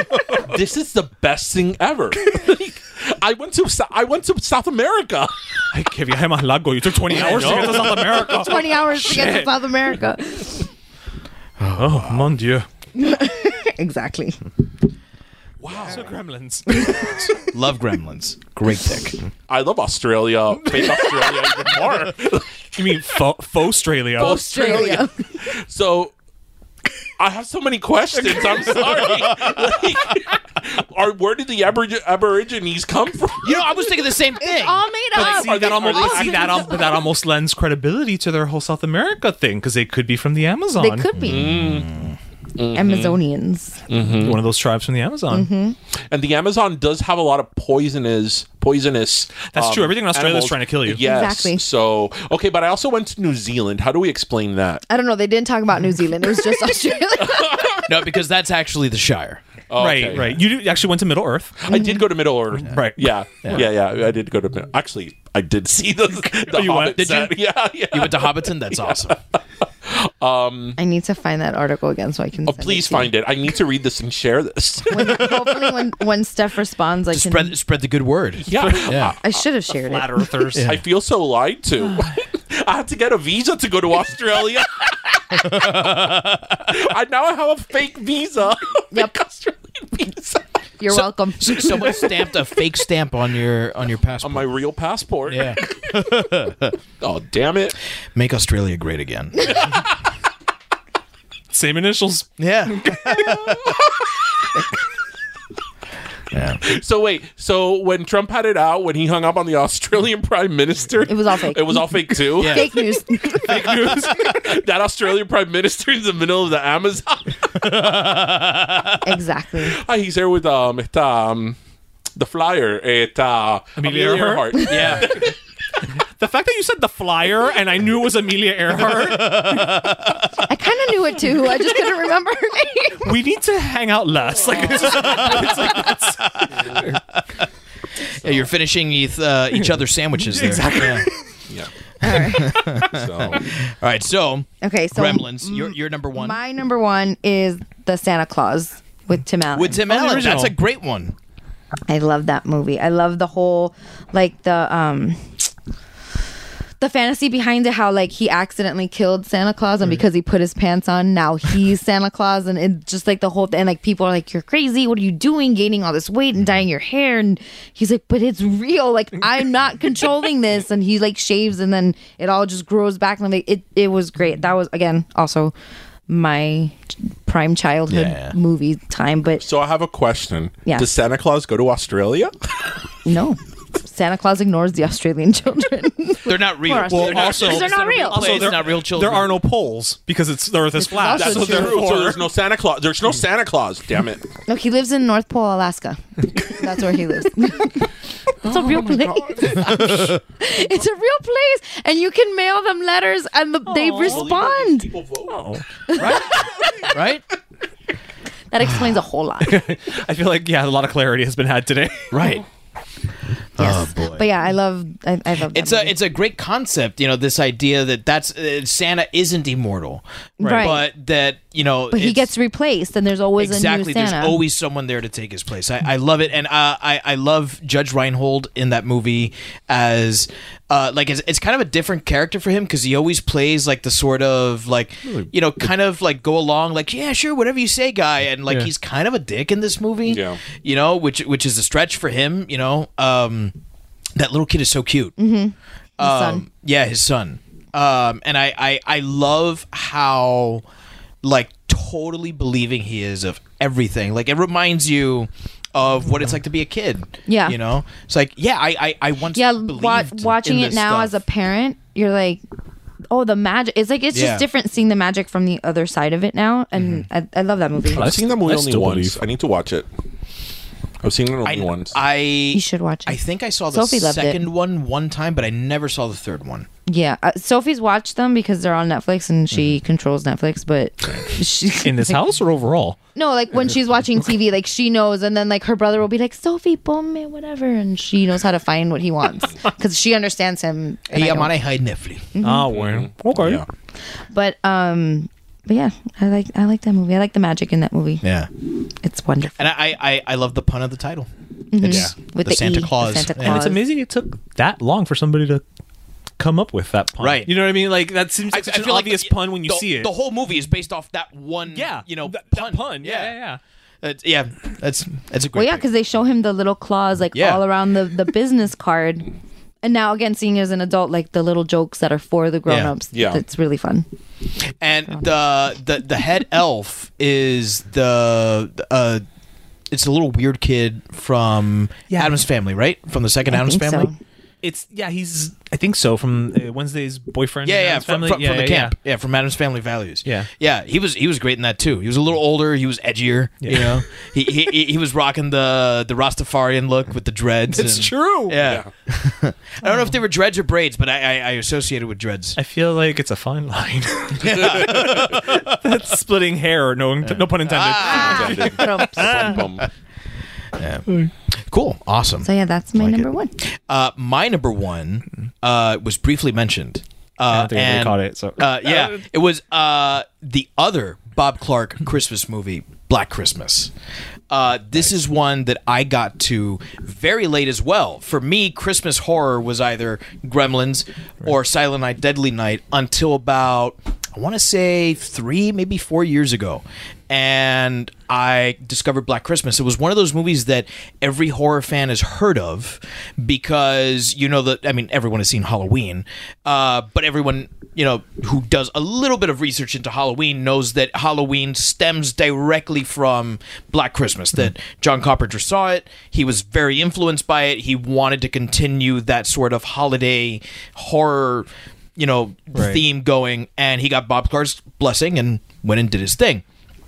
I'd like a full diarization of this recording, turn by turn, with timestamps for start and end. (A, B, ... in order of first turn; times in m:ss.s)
0:00.3-0:05.3 A
0:05.7-0:09.5 B
0:07.1-0:08.2 A
0:08.0-0:10.7 C
0:11.6-0:12.3 D
0:11.7-0:12.7 B
0:13.0-0:14.4 C
0:15.6-0:16.2 A
0:15.8-0:16.9 B
0:16.7-0:17.1 C
0:17.0-0:19.2 D
0:19.5-0:22.8 A
0:22.7-0:25.0 B
0:24.2-0:26.1 A
0:24.2-0:25.2 C
0:27.2-0:34.0 A
0:28.3-0:29.2 B
0:33.4-0:35.2 D
0:34.4-0:36.6 C
0:35.1-0:41.1 B
0:35.2-0:37.0 A
0:40.8-0:41.6 C
0:41.2-0:41.9 A
0:41.2-0:42.2 D
0:42.6-0:43.2 A
0:42.7-0:43.8 C
0:43.9-0:44.4 A
0:44.1-0:45.5 B
0:45.3-0:45.8 C
0:46.1-0:54.8 A
0:49.5-0:51.0 B
0:51.0-0:51.6 C
0:54.9-0:57.8 C
0:57.2-0:57.9 A
0:57.9-0:59.4 D
0:59.7-1:00.4 A
0:59.8-1:01.6 B
1:01.6-1:09.2 A
1:01.7-1:02.1 C
1:02.6-1:03.6 B
1:06.3-1:07.1 B
1:06.9-1:07.4 D
1:07.9-1:09.2 D
1:09.8-1:10.8 A
1:10.8-1:13.1 C
1:12.5-1:15.6 A
1:14.9-1:17.6 C
1:17.1-1:19.2 D
1:18.4-1:19.2 A
1:19.2-1:20.3 C
1:19.8-1:20.8 B
1:20.5-1:20.8 D
1:20.6-1:30.4 A
1:25.4-1:26.4 D
1:30.8-1:32.1 C
1:30.9-1:34.5 D
1:34.2-1:36.1 A
1:35.3-1:36.7 D
1:37.0-1:37.8 A
1:38.2-1:39.7 D
1:41.5-1:43.6 B
1:42.4-1:43.8 D
1:46.3-1:46.6 D
1:46.6-1:52.8 A
1:51.1-1:53.6 C
1:52.4-1:52.7 D
1:53.4-1:54.4 B
1:53.9-1:58.2 A
1:57.6-1:59.0 D
1:59.0-1:59.8 C
1:59.6-2:01.6 A
2:02.2-2:05.4 A
2:03.8-2:05.1 B
2:04.6-2:05.2 D
2:06.0-2:09.9 B
2:08.8-2:10.2 D
2:10.4-2:13.1 C
2:13.0-2:17.0 B
2:14.8-2:15.7 D
2:16.2-2:17.2 D
2:18.2-2:18.5 A
2:18.2-2:21.1 D
2:20.2-2:21.3 B
2:22.0-2:22.7 C
2:22.1-2:26.4 D
2:22.8-2:23.5 A
2:24.6-2:29.8 C
2:29.5-2:31.2 D
2:29.8-2:30.5 B
2:31.9-2:35.5 C
2:36.8-2:55.5 C
2:56.1-2:59.4 C
2:57.9-2:58.4 D
2:59.4-3:02.3 A
3:03.0-3:08.5 C
3:06.2-3:09.3 D
3:06.8-3:12.2 B
3:10.8-3:12.0 C
3:11.1-3:14.3 A
3:14.5-3:17.9 C
3:18.4-3:19.7 A
3:18.4-3:24.9 C
3:23.7-3:24.3 B
3:24.0-3:25.4 A
3:25.3-3:25.6 B
3:26.0-3:27.2 D
3:28.5-3:29.6 C
3:29.4-3:32.2 B
3:32.1-3:32.5 D
3:33.6-3:34.3 D
3:33.6-3:36.0 C
3:35.5-3:42.3 D
3:40.4-3:40.9 C
3:40.4-3:40.7 B
3:41.9-3:44.4 C
3:43.4-4:03.6 D
4:00.1-4:00.4 A
4:04.2-4:05.1 D
4:05.2-4:06.4 C
4:06.0-4:10.6 D
4:11.2-4:21.1 D
4:17.3-4:17.6 C
4:19.4-4:22.4 C
4:23.1-4:28.1 C
4:24.1-4:24.5 D
4:27.9-4:29.9 A
4:27.9-4:29.2 B
4:31.0-4:32.0 A
4:31.4-4:36.7 D
4:32.5-4:33.2 C
4:33.7-4:34.4 C
4:36.9-4:42.2 C
4:41.8-4:43.0 B
4:43.2-4:51.6 C
4:51.1-4:52.3 D
4:52.3-4:52.7 C
4:52.4-4:53.6 B
4:52.7-4:53.6 A
4:54.3-4:58.2 C
4:58.2-4:58.5 D
4:59.0-4:59.7 C
4:59.6-5:03.7 D
5:01.7-5:03.8 C
5:01.8-5:02.1 B
5:03.4-5:05.6 B
5:06.4-5:10.1 B
5:07.2-5:07.6 D
5:08.5-5:13.4 D
5:11.7-5:13.6 B
5:14.0-5:15.9 D
5:15.5-5:19.3 C
5:17.3-5:17.6 D
5:19.8-5:24.1 C
5:22.7-5:22.9 D
5:23.1-5:23.4 A
5:24.8-5:29.2 D
5:29.9-5:34.1 D
5:32.1-5:32.4 B
5:33.5-5:34.2 C
5:34.6-5:39.0 B
5:37.6-5:52.6 D
5:43.6-5:44.0 B
5:47.7-5:48.6 B
5:48.6-5:48.9 A
5:52.6-5:59.6 B
5:54.4-5:55.8 D
5:54.4-5:55.1 A
5:57.2-5:58.7 D
5:58.0-5:59.6 C
5:58.0-5:59.9 A
6:00.8-6:13.9 D
6:02.4-6:03.5 C
6:07.5-6:09.2 B
6:14.5-6:56.6 D
6:52.8-6:53.0 B